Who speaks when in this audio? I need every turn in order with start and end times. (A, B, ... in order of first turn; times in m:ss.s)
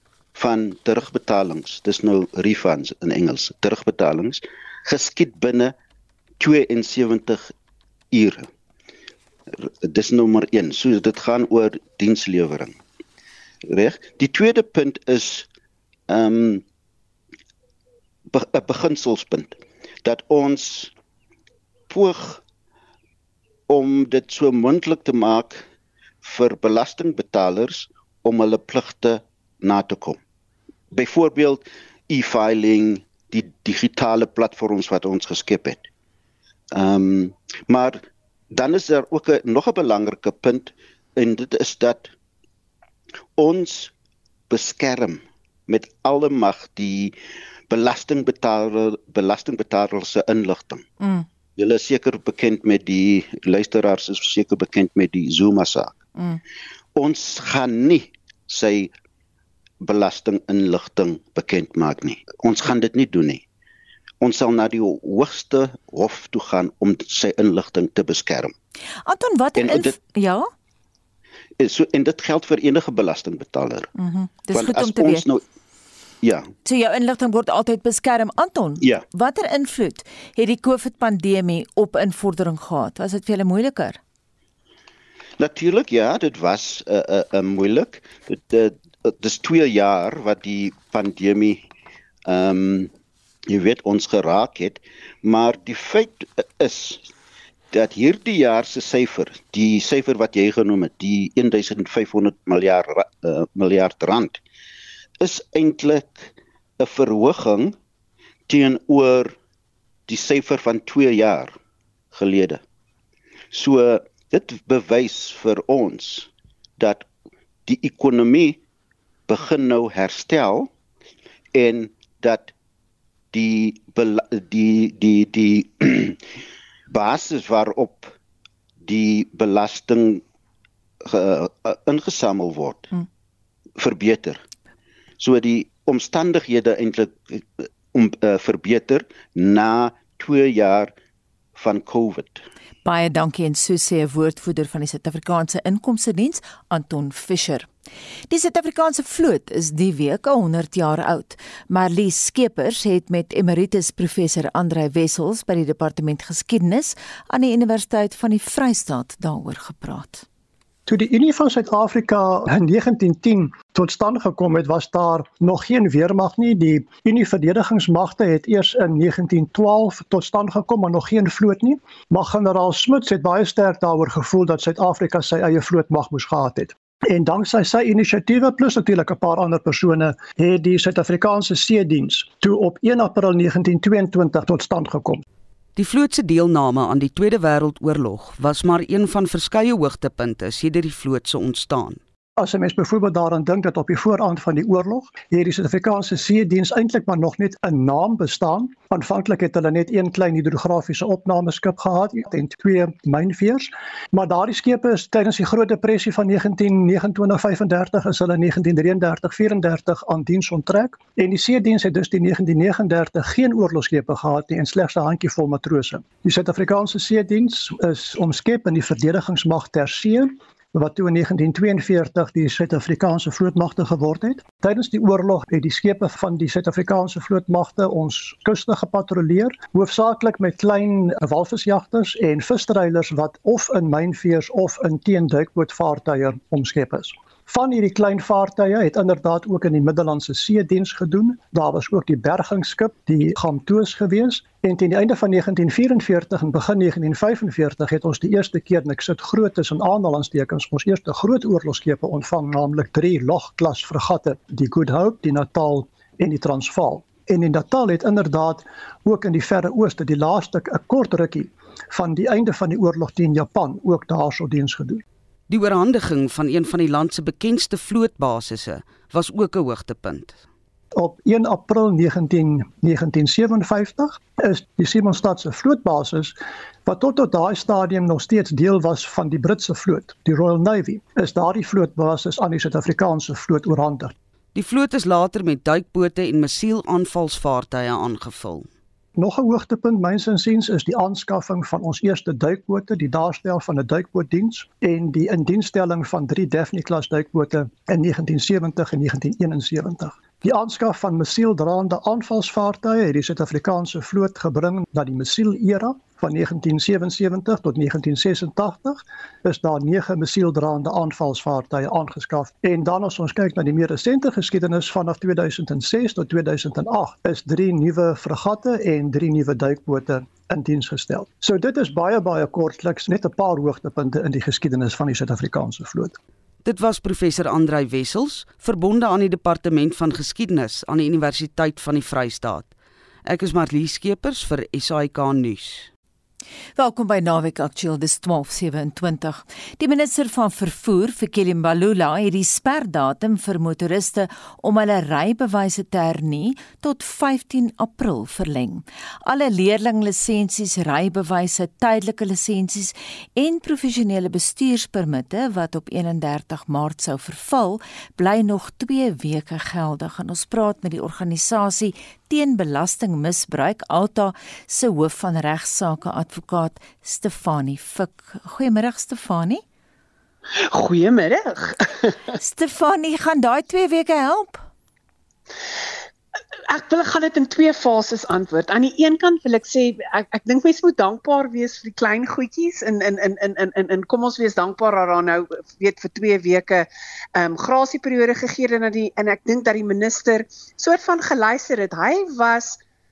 0:00.4-0:05.7 A
0:06.4-0:07.5 A
0:08.1-0:08.5 A
0:09.5-0:12.8 A
0:13.7-0:15.5 A
0:16.1-0:16.6 A
0:18.3-0:20.9 A
0:21.9-0:22.4 A
0:23.7-0:25.6 A
0:26.2-0:30.2 A
0:30.9-0:35.9 A
0:36.7-0:38.0 A
0:38.5-0:42.1 A
0:43.4-0:43.9 A
0:44.5-0:47.2 A
0:47.7-0:50.8 A
0:51.6-0:56.0 A
0:57.0-0:58.9 A
0:59.8-1:03.4 A
1:04.2-1:08.5 A
1:09.1-1:10.5 B
1:09.6-1:09.9 A
1:11.6-1:13.9 A
1:14.0-1:15.3 B
1:14.5-1:15.4 A
1:16.2-1:16.5 A
1:16.6-1:24.0 B
1:25.4-1:31.6 A
1:32.3-1:32.9 A
1:33.5-1:37.0 A
1:37.7-1:44.4 A
1:45.2-1:47.8 A
1:48.5-1:49.4 A
1:50.1-1:51.5 A
1:52.1-1:52.6 A
1:53.5-1:57.1 A
1:57.7-1:58.6 A
1:59.3-2:00.7 A
2:01.6-2:02.5 A
2:03.3-2:06.2 A
2:06.9-2:08.2 A
2:08.8-2:10.2 A
2:11.0-2:12.9 A
2:13.8-2:14.4 A
2:15.2-2:20.9 A
2:21.6-2:22.4 A
2:22.8-2:27.7 B
2:28.3-2:40.2 B
2:40.9-3:05.2 C
3:05.8-3:12.0 D
3:12.4-4:25.0 C
4:25.5-4:30.4 D
4:31.0-4:44.1 C
4:44.6-4:48.7 D
4:49.2-5:26.2 C
5:26.6-5:32.7 D
5:33.2-5:35.9 D
5:36.8-6:09.6 B
6:10.6-6:12.2 E
6:12.4-6:14.6 B
6:16.7-6:32.8 E